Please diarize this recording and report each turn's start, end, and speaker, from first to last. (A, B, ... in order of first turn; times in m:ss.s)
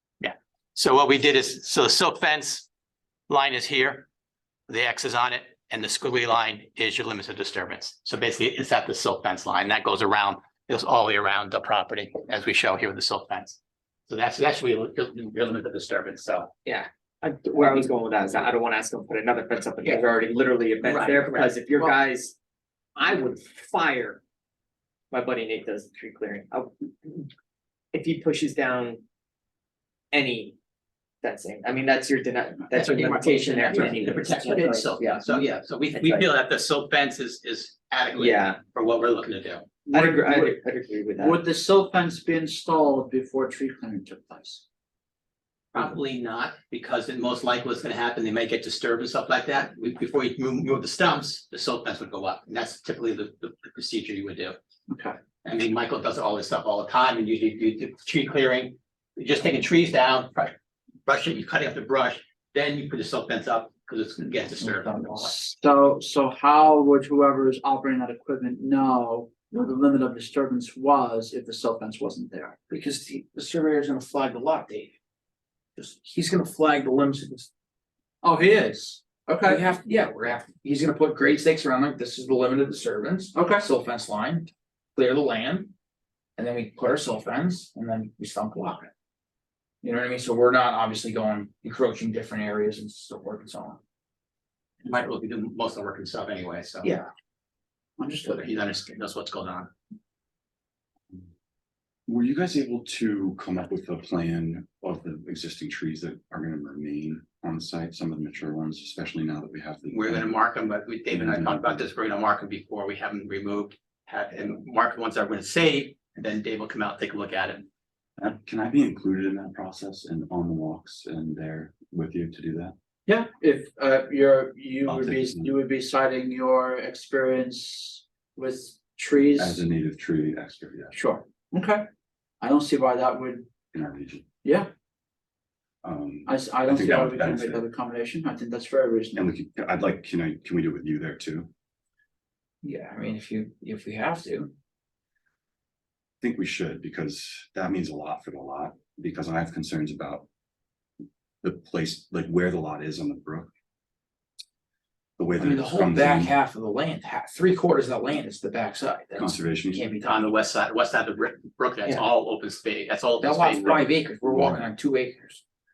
0:00.2-0:02.7 A
0:03.3-0:04.1 A
0:04.7-0:16.5 A
0:16.6-0:22.4 B
0:20.8-0:21.5 A
0:23.0-0:24.2 B
0:25.1-0:27.3 B
0:27.9-0:29.0 B
0:30.1-0:30.6 B
0:31.2-0:36.3 B
0:32.7-0:39.7 A
0:38.1-0:38.6 B
0:39.8-0:40.6 C
0:39.9-0:41.4 B
0:41.2-0:44.6 C
0:45.7-0:54.6 A
0:55.4-1:00.5 A
1:01.1-1:05.3 A
1:04.6-1:12.6 C
1:12.7-1:15.0 D
1:15.8-1:17.5 D
1:18.2-1:25.7 D
1:18.3-1:19.6 C
1:23.3-1:23.6 C
1:26.4-1:28.9 D
1:29.8-1:33.8 D
1:34.8-1:36.9 A
1:36.8-1:37.1 C
1:38.0-1:38.5 C
1:38.3-1:39.7 A
1:42.1-1:50.4 E
1:49.9-1:57.7 A
1:51.1-1:51.9 E
1:58.2-2:02.7 E
2:03.1-2:09.6 C
2:04.8-2:05.5 E
2:09.4-2:11.0 E
2:10.9-2:11.8 C
2:12.4-2:13.5 C
2:13.7-2:14.3 E
2:14.4-2:14.7 C
2:15.8-2:17.6 E
2:16.3-2:19.3 C
2:19.2-2:21.5 E
2:22.6-2:24.5 D
2:26.2-2:30.3 E
2:31.4-2:33.5 E
2:35.2-2:36.3 E
2:35.4-2:40.3 D
2:39.2-2:39.9 E
2:40.0-2:43.9 A
2:43.2-2:45.4 D
2:44.2-2:44.6 E